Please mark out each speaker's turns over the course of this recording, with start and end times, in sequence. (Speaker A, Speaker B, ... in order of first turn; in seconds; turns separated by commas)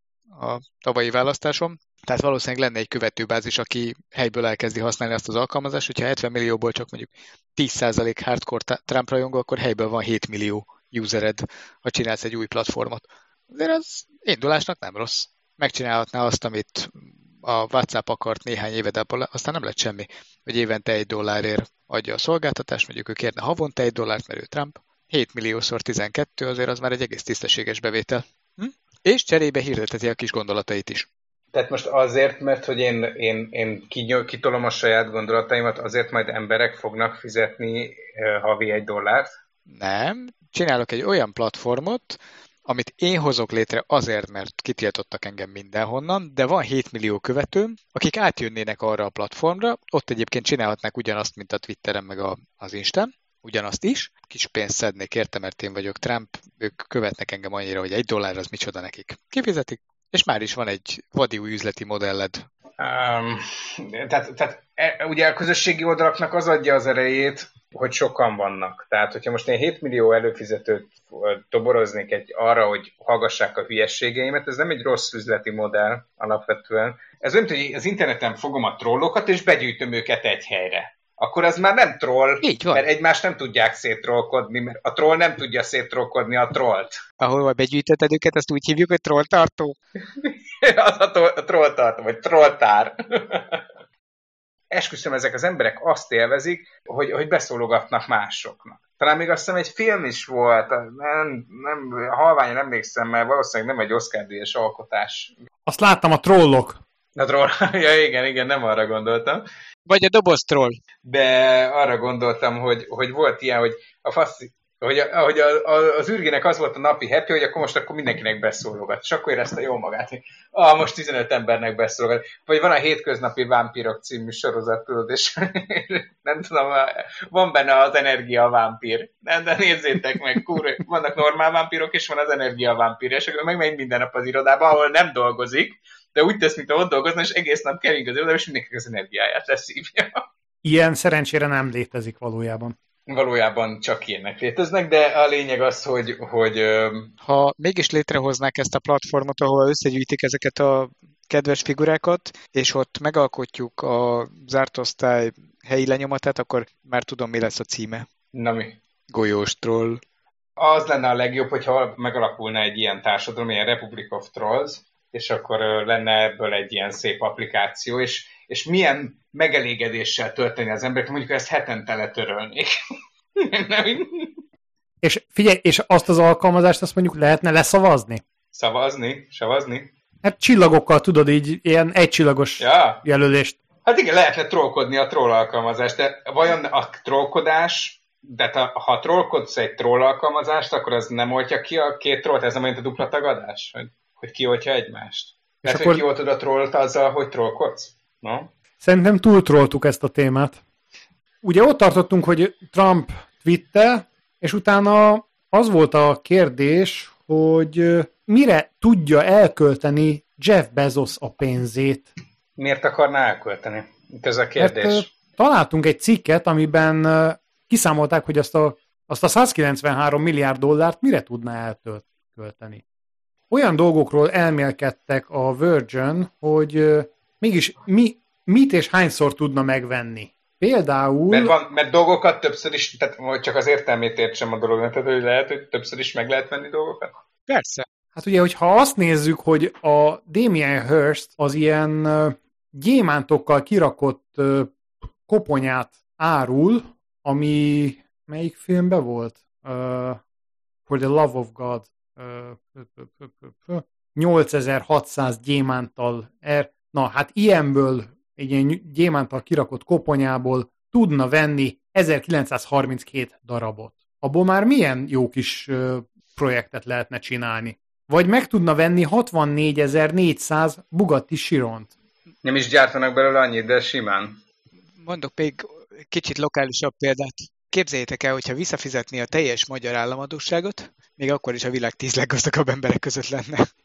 Speaker A: 0.3-31.1, Speaker B: 31.5-39.3, Speaker A: 39.7-62.5, Speaker B: 62.8-87.0, Speaker A: 82.4-82.8, Speaker A: 87.2-89.8, Speaker B: 90.2-93.6, Speaker B: 94.7-105.3, Speaker C: 105.7-106.8, Speaker B: 107.2-109.4, Speaker A: 109.8-110.8, Speaker B: 111.0-140.2, Speaker C: 140.6-142.7, Speaker B: 143.1-147.1, Speaker A: 147.2-158.1, Speaker B: 158.3-158.8, Speaker A: 159.1-160.0, Speaker B: 160.6-172.7, Speaker B: 173.3-174.4, Speaker C: 175.0-178.2, Speaker B: 178.5-179.9, Speaker C: 180.2-183.6, Speaker B: 182.6-183.0, Speaker B: 183.8-198.5, Speaker C: 195.6-196.0, Speaker C: 198.8-200.6, Speaker C: 201.4-212.1, Speaker B: 212.6-215.1, Speaker C: 214.6-222.8, Speaker C: 223.5-231.5, Speaker B: 231.3-237.1, Speaker A: 237.5-237.9, Speaker C: 238.2-244.7, Speaker C: 245.2-250.2, Speaker C: 250.9-271.9, Speaker B: 272.4-274.4, Speaker A: 275.0-283.7